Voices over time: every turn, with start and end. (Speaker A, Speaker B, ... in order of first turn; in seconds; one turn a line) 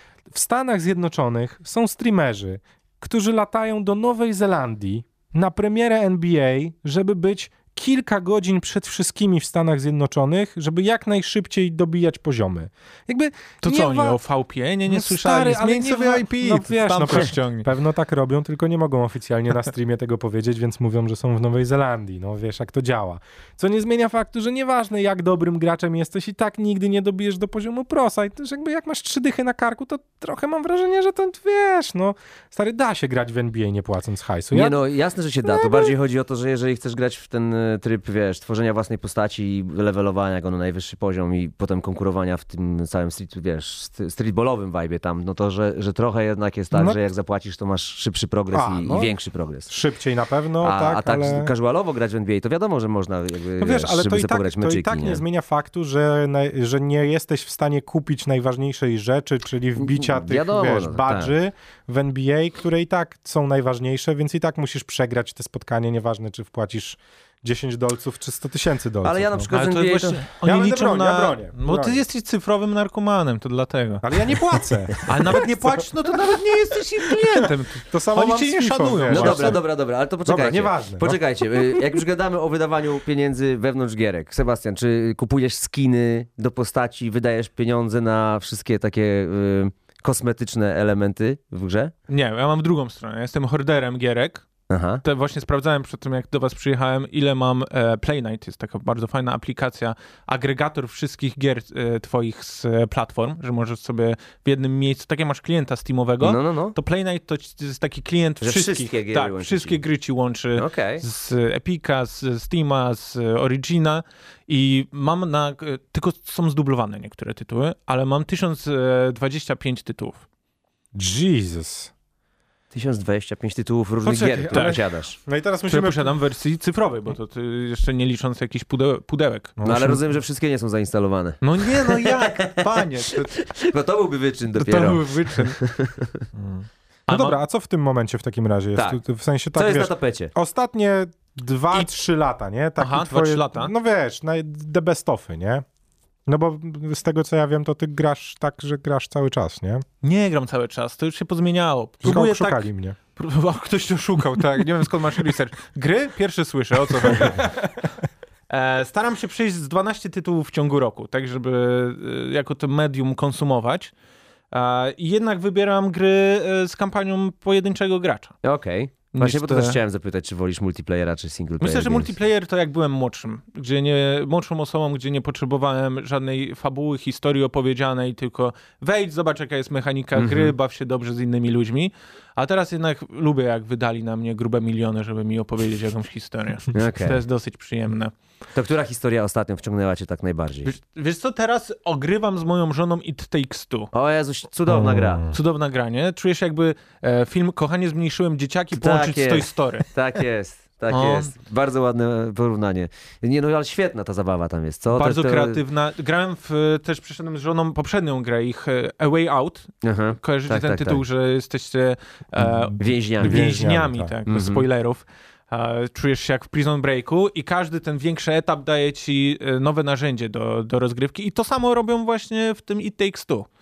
Speaker A: 0.3-14.2
Speaker B: 13.6-17.7
Speaker A: 14.9-34.8
Speaker C: 34.5-49.7
Speaker A: 35.4-35.9
Speaker A: 46.7-47.0
Speaker A: 48.5-49.1
Speaker A: 49.7-51.5
Speaker C: 50.6-55.2
Speaker A: 53.6-69.5
Speaker C: 59.8-61.3
Speaker C: 69.0-70.2
Speaker B: 69.5-74.0
Speaker A: 70.4-72.0
Speaker A: 74.0-75.8
Speaker B: 75.1-79.6
Speaker A: 77.1-79.6
Speaker C: 79.1-91.9
Speaker A: 80.2-81.9
Speaker B: 92.1-94.4
Speaker C: 94.7-95.0
Speaker B: 95.0-120.2
Speaker C: 106.2-106.7
Speaker C: 108.4-109.8
Speaker C: 110.6-111.0
Speaker A: 120.9-121.9
Speaker C: 122.7-125.2
Speaker A: 124.0-126.1
Speaker B: 124.5-124.8
Speaker B: 125.7-129.6
Speaker A: 129.6-130.0
Speaker C: 129.6-132.8
Speaker B: 131.4-133.5
Speaker C: 133.4-136.2
Speaker B: 134.6-135.6
Speaker A: 136.4-145.7
Speaker B: 137.1-137.4
Speaker C: 139.6-140.3
Speaker B: 142.8-143.7
Speaker A: 146.2-149.8
Speaker B: 150.0-157.8
Speaker A: 152.0-153.0
Speaker A: 157.1-157.5
Speaker B: 158.5-163.9
Speaker B: 164.5-168.3
Speaker C: 168.4-172.1
Speaker B: 169.1-169.8
Speaker B: 171.6-188.1
Speaker C: 180.2-180.6
Speaker C: 186.7-187.2
Speaker C: 188.6-190.7
Speaker B: 190.6-193.9
Speaker C: 193.9-195.2
Speaker A: 194.7-195.4
Speaker B: 195.3-199.9
Speaker C: 198.7-205.6
Speaker B: 200.9-201.3
Speaker B: 204.9-223.5
Speaker C: 209.8-211.0
Speaker A: 212.4-214.1
Speaker C: 212.8-213.5
Speaker C: 214.3-214.7